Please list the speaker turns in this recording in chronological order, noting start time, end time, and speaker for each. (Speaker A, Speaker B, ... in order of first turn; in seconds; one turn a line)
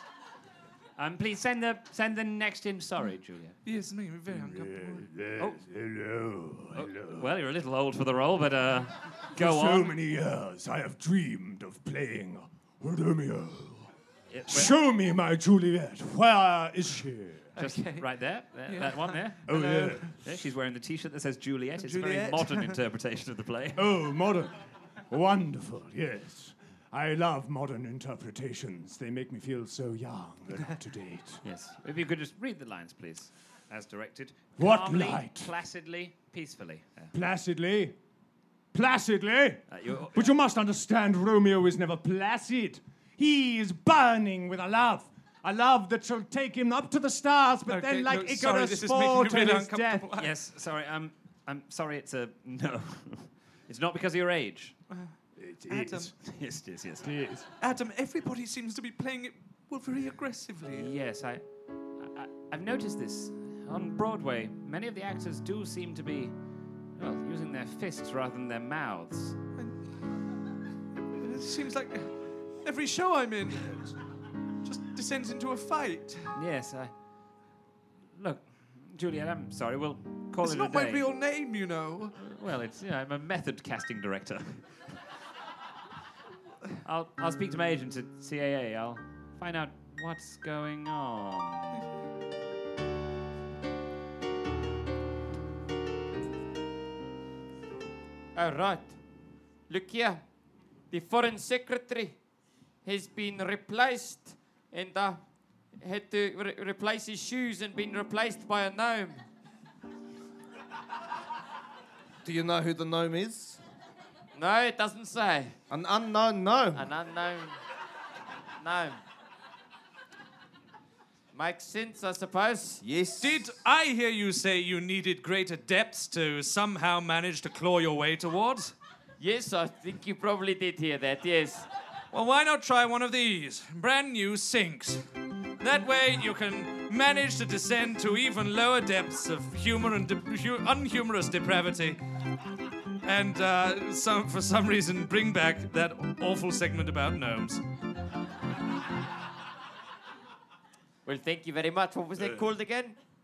Speaker A: 1.0-3.6
Speaker B: 3.6-5.1
Speaker C: 4.3-7.3
Speaker A: 6.7-10.0
Speaker C: 9.3-13.9
Speaker A: 14.3-14.8
Speaker C: 14.5-17.5
Speaker B: 17.6-18.1
Speaker A: 17.6-23.8
Speaker B: 18.7-20.1
Speaker C: 19.4-20.1
Speaker B: 21.9-22.8
Speaker C: 23.8-24.5
Speaker C: 25.1-31.4
Speaker A: 31.4-37.1
Speaker C: 34.6-35.5
Speaker C: 37.1-37.9
Speaker C: 38.7-50.1
Speaker A: 39.7-40.3
Speaker B: 47.6-50.3
Speaker A: 50.1-54.8
Speaker C: 55.4-56.1
Speaker B: 55.6-56.1
Speaker A: 56.2-57.1
Speaker C: 57.0-57.5
Speaker B: 57.6-60.9
Speaker A: 60.7-61.4
Speaker A: 62.0-66.3
Speaker A: 67.0-69.3
Speaker B: 71.1-72.1
Speaker B: 72.6-74.0
Speaker B: 74.6-76.3
Speaker A: 76.3-76.9
Speaker A: 78.2-81.1
Speaker B: 80.4-82.1
Speaker A: 82.2-84.8
Speaker A: 86.8-91.8
Speaker D: 98.3-98.9
Speaker D: 99.7-100.2
Speaker D: 100.9-102.2
Speaker D: 102.8-105.2
Speaker D: 105.8-109.2
Speaker E: 112.2-113.6
Speaker D: 114.3-115.6
Speaker E: 115.7-116.9
Speaker D: 116.7-117.6
Speaker D: 118.6-119.0
Speaker D: 121.3-122.8
Speaker E: 122.8-123.5
Speaker B: 123.2-128.7
Speaker D: 129.2-131.7
Speaker B: 132.1-135.0
Speaker B: 135.6-142.0
Speaker B: 143.0-147.6
Speaker D: 151.0-153.0
Speaker B: 152.2-152.5